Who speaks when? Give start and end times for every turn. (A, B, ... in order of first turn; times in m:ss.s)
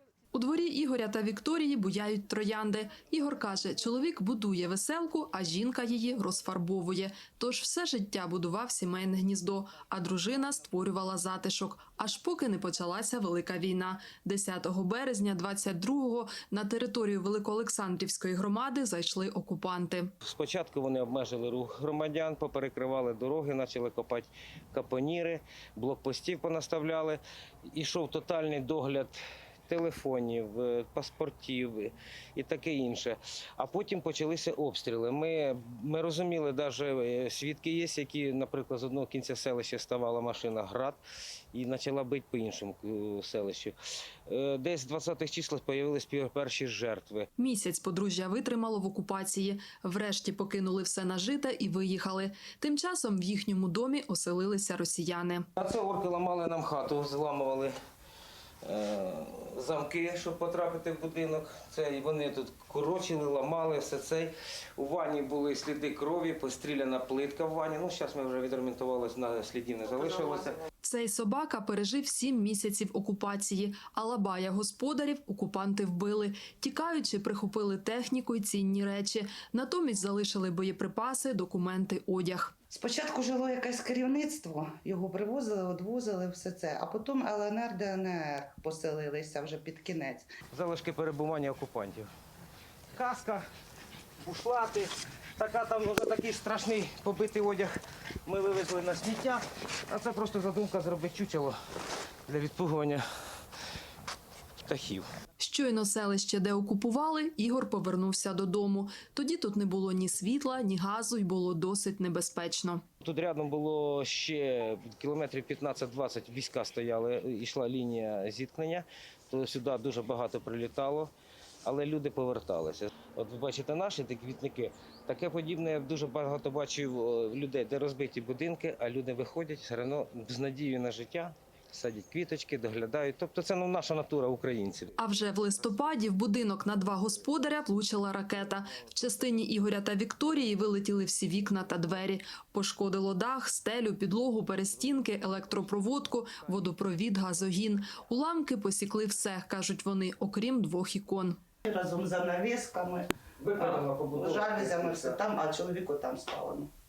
0:00.3-0:20.1 A
0:20.2-0:27.2 B
0:27.7-0:29.2 B
0:29.7-0:41.0 B
0:41.5-0:43.7 B
0:44.3-0:47.3 B
0:47.4-0:55.5 A
0:55.6-0:57.7 B
0:58.6-1:10.6 B
1:10.8-1:22.5 A
1:22.7-1:30.3 C
1:30.5-1:32.1 B
1:32.9-1:33.4 B
1:34.2-1:41.5 B
1:42.3-1:43.0 B
1:44.6-1:45.0 B
1:45.4-1:52.8 A
1:53.0-2:01.1 B
2:01.6-2:15.0 B
2:15.0-2:31.4 A
2:31.6-2:36.7 C
2:33.4-2:35.2 B